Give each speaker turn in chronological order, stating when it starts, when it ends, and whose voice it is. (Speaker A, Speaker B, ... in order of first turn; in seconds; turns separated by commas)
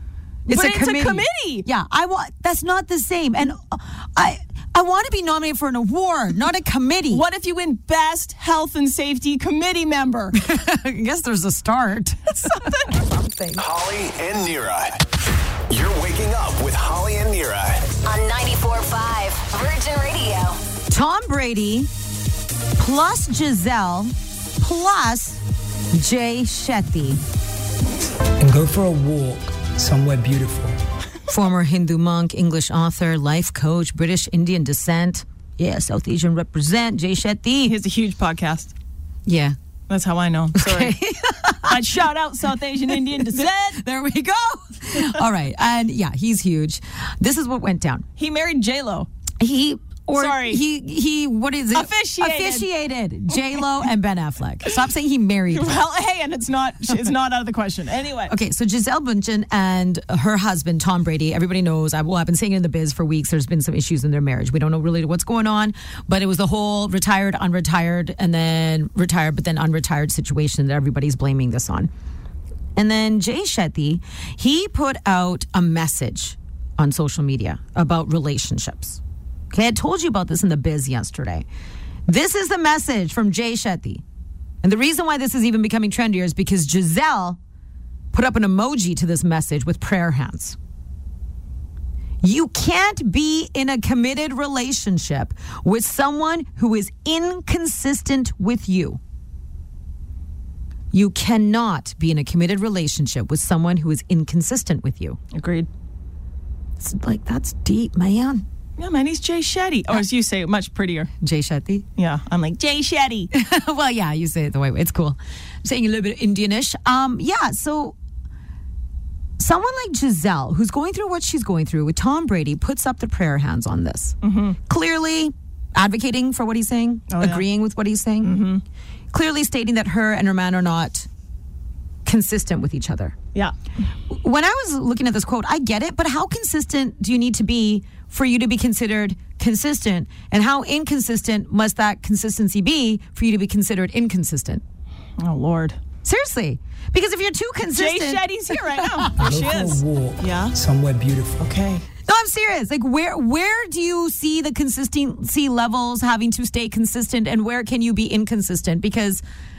Speaker A: 0.5-7.2, Speaker B: 0.5-1.7, Speaker B: 7.1-10.4, Speaker A: 10.3-13.6, Speaker B: 12.4-13.0, Speaker C: 13.6-15.0, Speaker C: 15.7-17.9, Speaker D: 18.1-20.6, Speaker A: 20.9-21.9, Speaker A: 22.8-27.2, Speaker E: 28.4-30.8, Speaker A: 31.3-37.8, Speaker B: 37.6-38.7, Speaker A: 39.3-39.6, Speaker B: 39.9-41.0, Speaker A: 40.5-42.0, Speaker B: 41.6-43.8, Speaker A: 42.9-48.0, Speaker B: 48.2-49.1, Speaker A: 49.4-55.8, Speaker B: 50.1-50.6, Speaker B: 51.7-52.7, Speaker B: 55.5-58.3, Speaker A: 58.3-71.9, Speaker A: 72.8-81.5, Speaker A: 82.1-84.0, Speaker A: 84.6-87.4, Speaker A: 88.1-90.6, Speaker A: 92.2-99.0, Speaker A: 100.9-105.2, Speaker B: 105.3-105.7, Speaker A: 106.8-108.5, Speaker B: 108.8-111.1, Speaker A: 111.2-111.9, Speaker B: 112.0-113.3, Speaker A: 113.3-118.0, Speaker A: 119.4-128.4, Speaker B: 124.2-124.6, Speaker B: 127.1-127.4, Speaker B: 128.2-128.6, Speaker A: 129.1-131.1, Speaker A: 132.1-133.2, Speaker A: 134.1-144.6, Speaker B: 145.2-145.8, Speaker A: 146.0-149.2, Speaker B: 147.7-150.6, Speaker E: 149.1-151.4, Speaker B: 151.4-151.8, Speaker A: 152.1-159.2